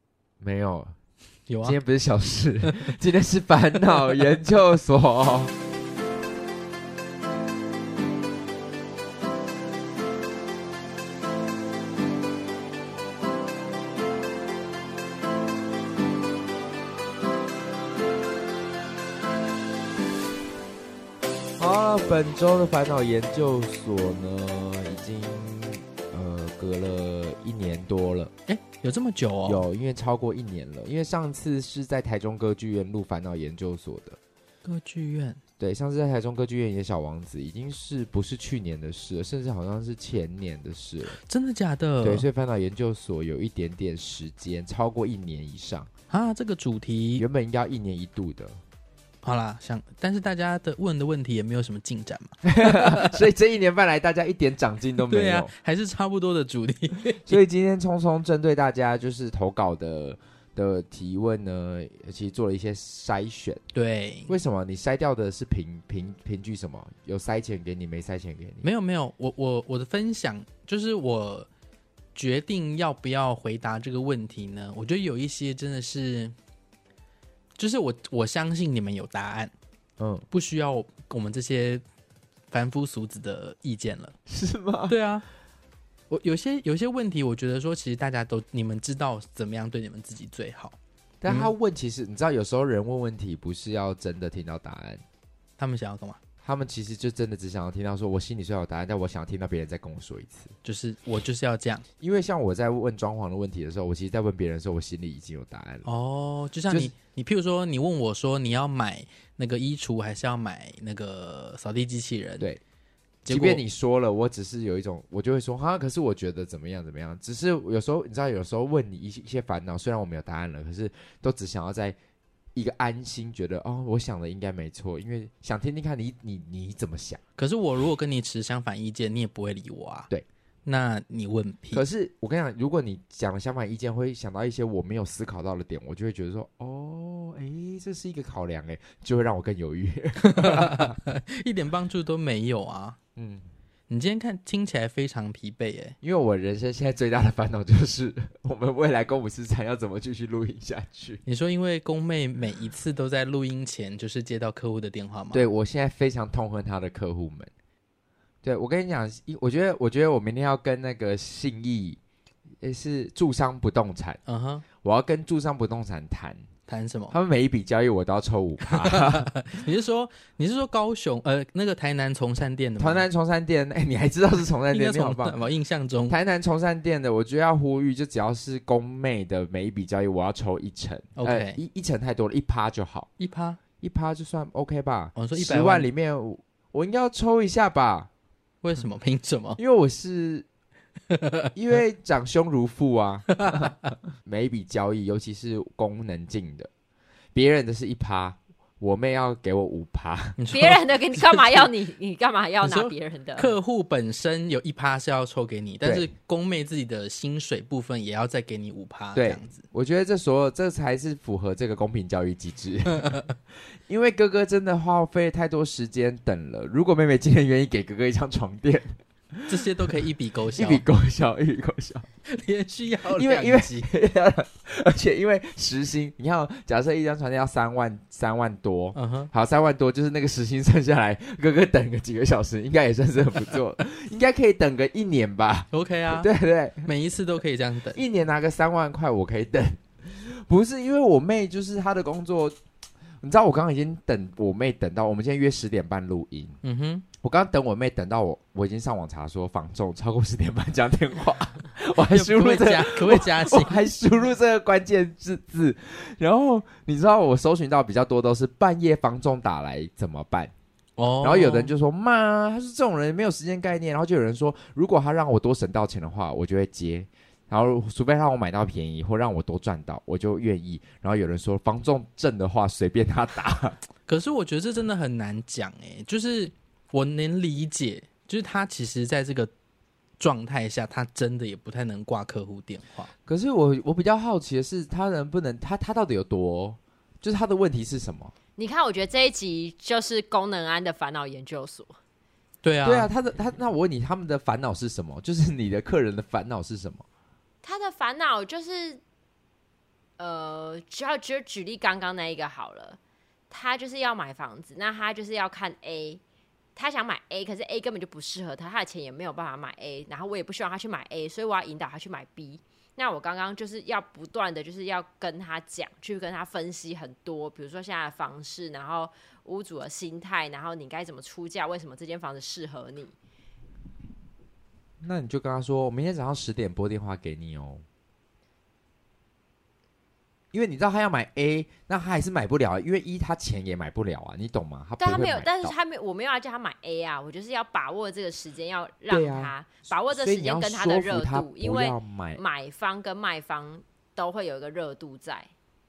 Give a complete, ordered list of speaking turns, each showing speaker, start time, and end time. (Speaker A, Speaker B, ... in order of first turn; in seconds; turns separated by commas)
Speaker A: 0.4-0.9, Speaker B: 1.5-1.8, Speaker A: 1.6-5.5, Speaker A: 21.6-28.3, Speaker B: 28.5-29.6, Speaker A: 29.4-34.2, Speaker B: 34.6-35.4, Speaker A: 35.6-41.2, Speaker B: 41.1-42.2, Speaker A: 42.0-45.9, Speaker B: 46.1-47.2, Speaker A: 47.2-48.6, Speaker B: 49.2-53.2, Speaker A: 52.4-55.5, Speaker B: 55.1-57.4, Speaker A: 57.2-63.6, Speaker B: 63.7-64.3, Speaker A: 64.3-68.7, Speaker B: 68.6-71.5, Speaker B: 72.1-76.3, Speaker B: 77.6-79.5, Speaker A: 80.0-80.2, Speaker B: 80.3-81.8, Speaker B: 82.5-84.2, Speaker A: 84.3-85.0, Speaker B: 84.9-85.2, Speaker B: 86.1-90.8, Speaker A: 91.2-95.0, Speaker B: 91.3-91.5, Speaker B: 95.6-96.2, Speaker A: 96.4-100.5, Speaker B: 100.6-101.8, Speaker A: 102.0-105.9, Speaker B: 105.8-112.5, Speaker A: 106.7-106.9, Speaker B: 113.2-113.6, Speaker A: 113.3-122.0, Speaker A: 122.5-127.2, Speaker B: 127.4-130.1, Speaker B: 130.7-131.8, Speaker A: 131.7-141.0, Speaker B: 140.2-143.0, Speaker A: 143.2-143.4, Speaker B: 143.9-145.9, Speaker A: 146.0-151.2, Speaker B: 151.2-155.4, Speaker A: 155.3-157.5, Speaker A: 158.4-162.0, Speaker A: 162.6-164.2, Speaker B: 164.3-164.6, Speaker A: 164.8-166.5, Speaker B: 166.7-167.1, Speaker A: 167.1-169.3, Speaker B: 168.7-173.0, Speaker A: 172.8-175.3, Speaker B: 174.7-176.2, Speaker A: 176.1-183.1, Speaker B: 181.2-181.6, Speaker B: 183.2-183.6, Speaker A: 183.8-188.1, Speaker B: 185.2-185.9, Speaker B: 188.6-189.6, Speaker A: 189.6-190.4, Speaker B: 191.1-191.4, Speaker A: 191.5-193.7, Speaker B: 193.3-193.6, Speaker A: 194.2-196.7, Speaker A: 197.3-200.4, Speaker B: 200.4-201.7, Speaker C: 200.5-203.5, Speaker B: 202.6-209.6, Speaker A: 209.1-213.2, Speaker A: 213.9-219.6, Speaker B: 219.5-220.8, Speaker A: 220.6-222.1, Speaker B: 222.3-223.9, Speaker A: 223.1-236.9, Speaker B: 228.9-229.3, Speaker B: 235.7-236.3, Speaker B: 236.8-238.0, Speaker A: 237.9-242.6, Speaker A: 243.2-246.6, Speaker B: 246.6-247.1, Speaker A: 247.2-260.5, Speaker B: 252.0-253.9, Speaker B: 261.0-261.7, Speaker A: 261.2-273.8, Speaker B: 274.1-279.5, Speaker B: 280.2-283.1, Speaker A: 283.2-288.3, Speaker C: 288.6-292.0, Speaker B: 292.6-293.1, Speaker A: 292.8-297.1, Speaker C: 297.6-299.0, Speaker C: 300.2-303.0, Speaker C: 303.5-306.2, Speaker C: 306.8-323.1, Speaker A: 325.0-327.8, Speaker A: 330.5-335.7, Speaker C: 335.0-345.5, Speaker A: 339.1-342.4